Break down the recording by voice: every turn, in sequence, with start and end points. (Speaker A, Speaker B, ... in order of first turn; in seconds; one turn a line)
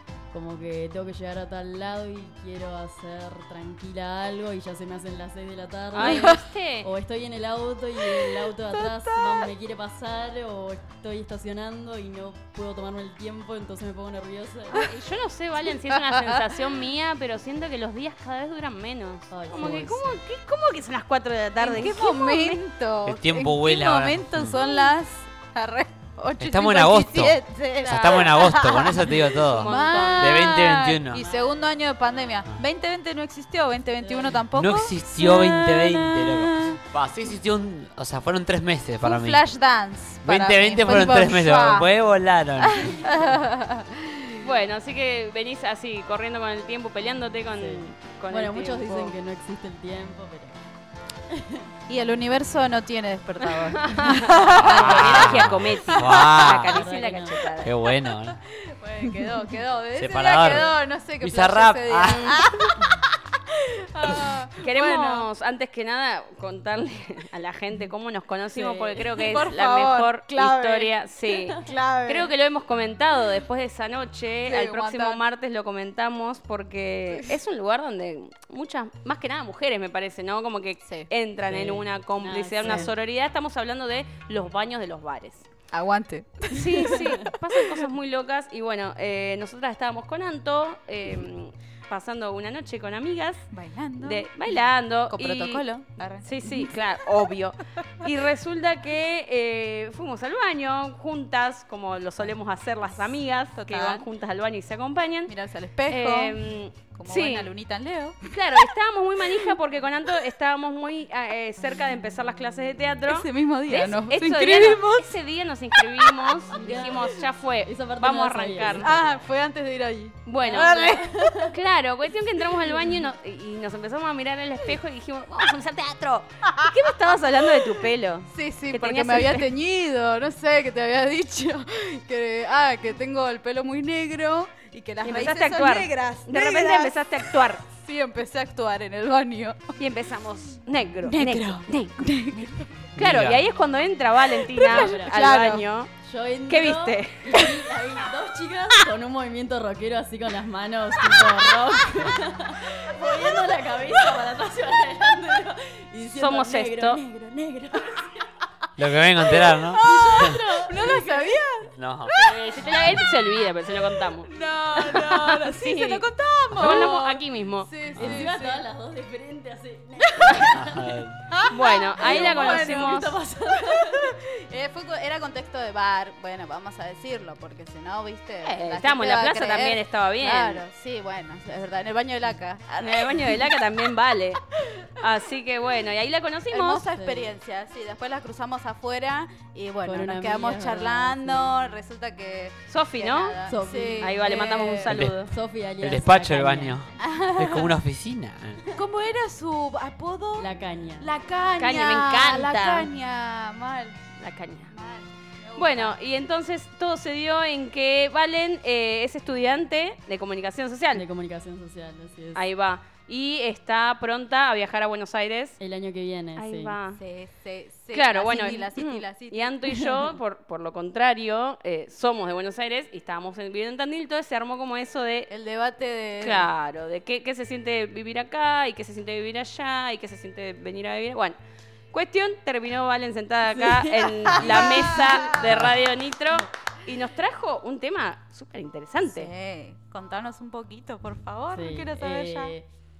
Speaker A: 0.3-14.8
Speaker B: 5.9-6.9
Speaker C: 6.0-6.4
Speaker C: 8.2-9.5
Speaker B: 14.7-22.6
Speaker C: 15.9-16.3
Speaker A: 19.3-20.2
Speaker C: 21.6-36.8
Speaker D: 23.0-24.6
Speaker D: 26.4-31.2
Speaker B: 27.8-28.4
Speaker B: 29.2-30.4
Speaker D: 34.5-39.4
Speaker C: 39.0-41.9
Speaker D: 40.2-42.9
Speaker C: 42.6-44.5
Speaker B: 44.4-49.1
Speaker A: 47.6-50.6
Speaker A: 51.3-51.7
Speaker C: 51.9-56.4
Speaker B: 53.8-57.7
Speaker D: 54.6-56.8
Speaker A: 56.4-57.6
Speaker D: 57.6-58.4
Speaker C: 57.9-65.3
Speaker D: 60.0-62.4
Speaker B: 62.1-62.4
Speaker B: 64.6-85.5
Speaker A: 68.6-68.9
Speaker C: 69.0-72.3
Speaker C: 74.4-75.2
Speaker C: 77.1-77.4
Speaker C: 80.8-81.1
Speaker A: 81.5-82.9
Speaker C: 85.7-87.3
Speaker B: 86.5-93.5
Speaker A: 86.9-87.3
Speaker C: 93.5-96.7
Speaker B: 94.0-95.7
Speaker B: 96.2-105.3
Speaker C: 103.5-104.1
Speaker C: 105.3-109.5
Speaker B: 105.9-107.5
Speaker B: 108.3-118.9
Speaker C: 113.1-115.1
Speaker C: 115.7-116.4
Speaker A: 116.5-119.3
Speaker C: 118.7-121.4
Speaker B: 120.2-129.5
Speaker A: 120.6-121.5
Speaker C: 126.5-126.9
Speaker C: 127.4-139.7
Speaker B: 135.0-137.6
Speaker B: 139.8-142.4
Speaker C: 141.0-142.8
Speaker B: 142.9-145.9
Speaker D: 143.0-143.4
Speaker C: 144.3-145.7
Speaker A: 144.5-145.2
Speaker A: 146.0-158.2
Speaker B: 146.5-147.7
Speaker B: 156.0-157.0
Speaker D: 158.8-160.4
Speaker C: 159.4-162.4
Speaker A: 159.8-161.3
Speaker D: 161.7-162.1
Speaker B: 162.1-167.7
Speaker C: 164.2-168.6
Speaker A: 167.9-171.0
Speaker D: 167.9-168.3
Speaker D: 170.4-171.2
Speaker C: 171.3-183.6
Speaker B: 171.5-173.1
Speaker A: 172.0-174.1
Speaker B: 178.4-180.6
Speaker B: 182.8-184.4
Speaker C: 184.7-185.0
Speaker B: 185.0-186.8
Speaker C: 186.5-194.9
Speaker A: 186.9-187.3
Speaker A: 189.8-191.5
Speaker B: 192.7-193.3
Speaker A: 193.4-194.2
Speaker B: 194.0-195.3
Speaker D: 194.9-195.2
Speaker A: 195.2-196.8
Speaker D: 195.8-198.6
Speaker C: 197.0-197.8
Speaker C: 198.7-204.0
Speaker A: 200.4-201.1
Speaker B: 201.6-202.9
Speaker B: 204.2-204.7
Speaker C: 204.7-206.0
Speaker B: 205.6-211.0
Speaker A: 210.9-212.4
Speaker B: 212.3-215.6
Speaker A: 215.6-216.8
Speaker B: 216.3-217.0
Speaker C: 216.9-219.6
Speaker B: 217.9-225.3
Speaker C: 225.3-226.5
Speaker B: 226.2-231.4
Speaker B: 231.9-239.3
Speaker C: 233.6-235.7
Speaker A: 234.6-234.9
Speaker C: 239.0-242.5
Speaker A: 241.5-242.7